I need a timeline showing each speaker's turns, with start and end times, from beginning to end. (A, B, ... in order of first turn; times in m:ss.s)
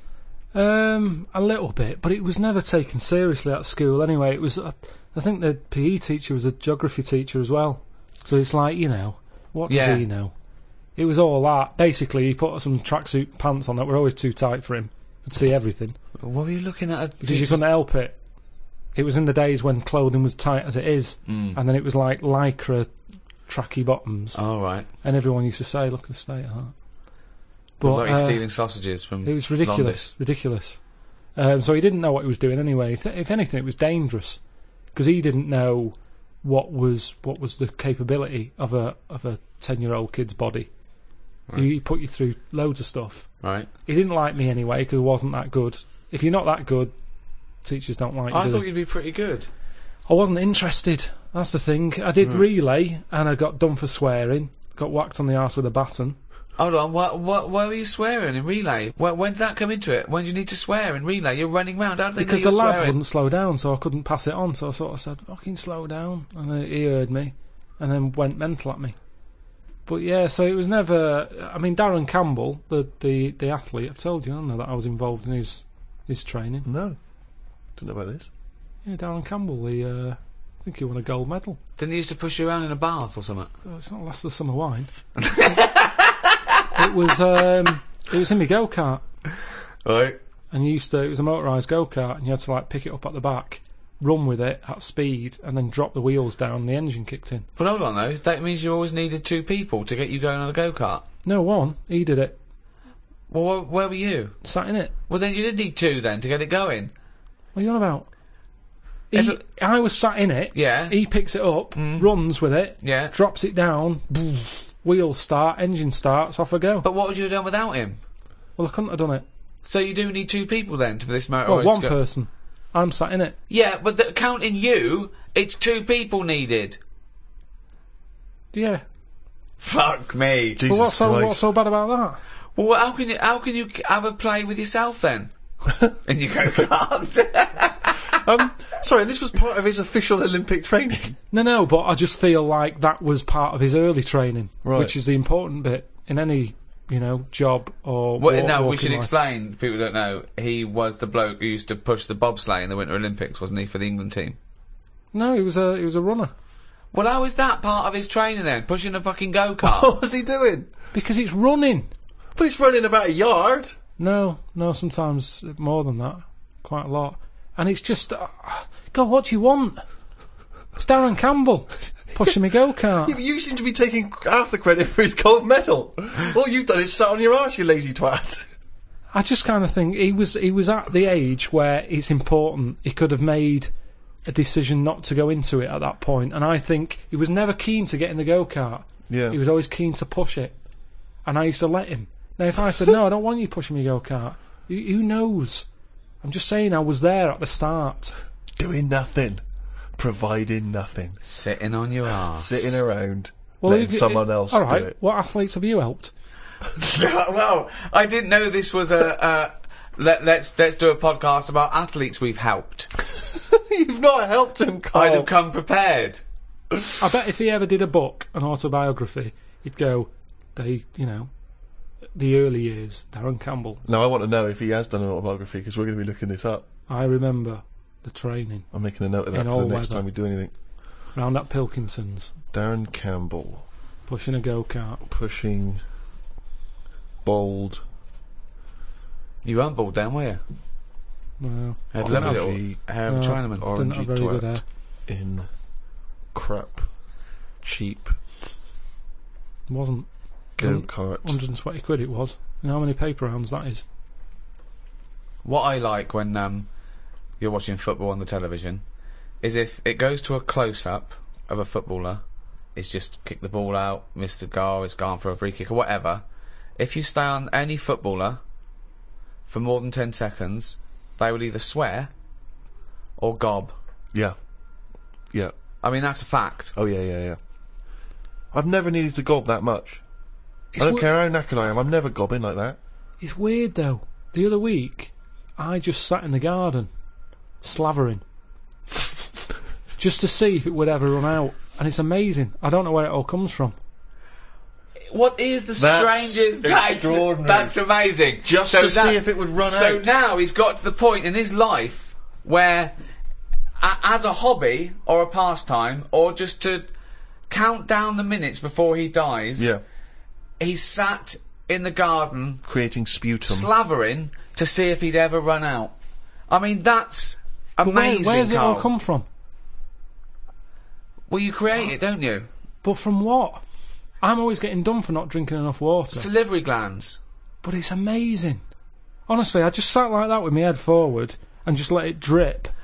0:00.5-0:10.3 A
0:09.7-0:10.0 B
0:11.0-0:16.0 A
0:16.2-0:17.6 B
0:17.2-0:18.2 A
0:18.9-0:22.9 A
0:21.2-0:21.6 B
0:23.5-0:24.4 A
0:24.3-0:24.9 B
0:25.0-0:26.7 A
0:27.8-0:28.4 A
0:27.8-0:30.1 B
0:29.2-0:30.8 A
0:31.3-0:34.4 A
0:34.9-0:40.7 A
0:41.5-0:43.3 A
0:43.4-0:43.7 B
0:43.8-0:46.9 A
0:47.6-0:48.6 A
0:48.3-0:49.5 B
0:50.1-0:56.2 A
0:56.6-1:03.0 B
1:02.2-1:09.0 A
1:09.8-1:16.7 A
1:16.6-1:17.0 C
1:17.8-1:18.3 C
1:18.8-1:21.6 A
1:21.8-1:23.5 B
1:23.6-1:24.9 A
1:25.2-1:26.4 B
1:26.7-1:29.0 A
1:29.8-1:30.1 C
1:30.5-1:37.4 A
1:37.6-1:41.1 B
1:41.2-1:42.4 A
1:43.3-1:44.4 B
1:44.4-1:44.9 A
1:45.1-1:46.9 B
1:47.5-1:48.1 A
1:49.1-1:56.8 A
1:49.1-1:49.4 B
1:50.5-1:51.0 B
1:51.7-1:52.1 B
1:52.8-1:53.1 B
1:56.8-1:58.0 B
1:58.6-1:59.2 A
1:59.6-2:01.9 B
2:01.4-2:03.4 A
2:03.5-2:06.8 B
2:08.5-2:08.8 A
2:09.6-2:10.6 B
2:10.6-2:11.4 C
2:10.6-2:12.2 A
2:12.6-2:15.3 B
2:16.0-2:18.2 B
2:18.2-2:21.2 C
2:21.3-2:29.1 A
2:24.6-2:24.9 C
2:28.2-2:34.4 B
2:35.1-2:36.3 A
2:36.9-2:39.9 B
2:39.6-2:40.7 C
2:40.9-2:41.9 A
2:42.4-2:43.8 C
2:44.0-2:49.8 A
2:50.8-2:53.2 A
2:53.0-2:58.5 C
2:59.1-3:03.7 A
3:04.2-3:10.6 A
3:09.1-3:09.4 C
3:11.2-3:15.6 A
3:16.2-3:18.1 A
3:18.6-3:19.4 C
3:20.0-3:21.2 C
3:21.2-3:22.8 B
3:22.3-3:24.9 C
3:23.6-3:26.1 A
3:26.7-3:32.9 B
3:33.2-3:35.3 C
3:34.9-3:36.2 B
3:37.0-3:41.3 A
3:42.1-3:43.8 A
3:43.8-3:46.6 C
3:46.9-3:48.7 A
3:48.7-3:50.5 C
3:49.3-3:50.0 A
3:51.1-3:52.3 A
3:52.5-3:53.6 C
3:54.1-3:55.0 A
3:55.1-3:55.8 C
3:57.2-3:57.8 C
3:59.4-4:00.4 B
4:01.4-4:02.5 A
4:01.9-4:03.7 B
4:02.0-4:02.8 C
4:03.1-4:04.6 A
4:03.5-4:04.6 C
4:05.1-4:05.5 C
4:06.3-4:06.9 C
4:07.6-4:08.2 C
4:09.7-4:13.8 A
4:10.6-4:11.4 C
4:15.4-4:16.7 B
4:17.4-4:18.8 B
4:19.4-4:22.2 B
4:22.7-4:26.2 B
4:26.8-4:28.4 B
4:29.5-4:32.1 B
4:33.2-4:33.7 B
4:35.8-4:36.7 B
4:36.7-4:37.4 C
4:38.5-4:40.0 C
4:40.7-4:41.1 A
4:40.8-4:42.8 C
4:43.2-4:46.9 A
4:47.6-4:48.2 A
4:50.0-4:53.8 A
4:55.1-5:02.9 B
4:55.8-4:57.8 C
4:58.4-5:00.1 C
5:03.8-5:06.9 B
5:07.5-5:09.7 B
5:10.6-5:12.6 B
5:12.6-5:13.7 C
5:13.4-5:15.9 B
5:16.5-5:18.9 B
5:17.8-5:19.2 A
5:21.3-5:22.5 B
5:22.8-5:23.6 A
5:24.2-5:26.3 A
5:26.1-5:27.2 B
5:27.6-5:28.6 A
5:29.3-5:32.7 A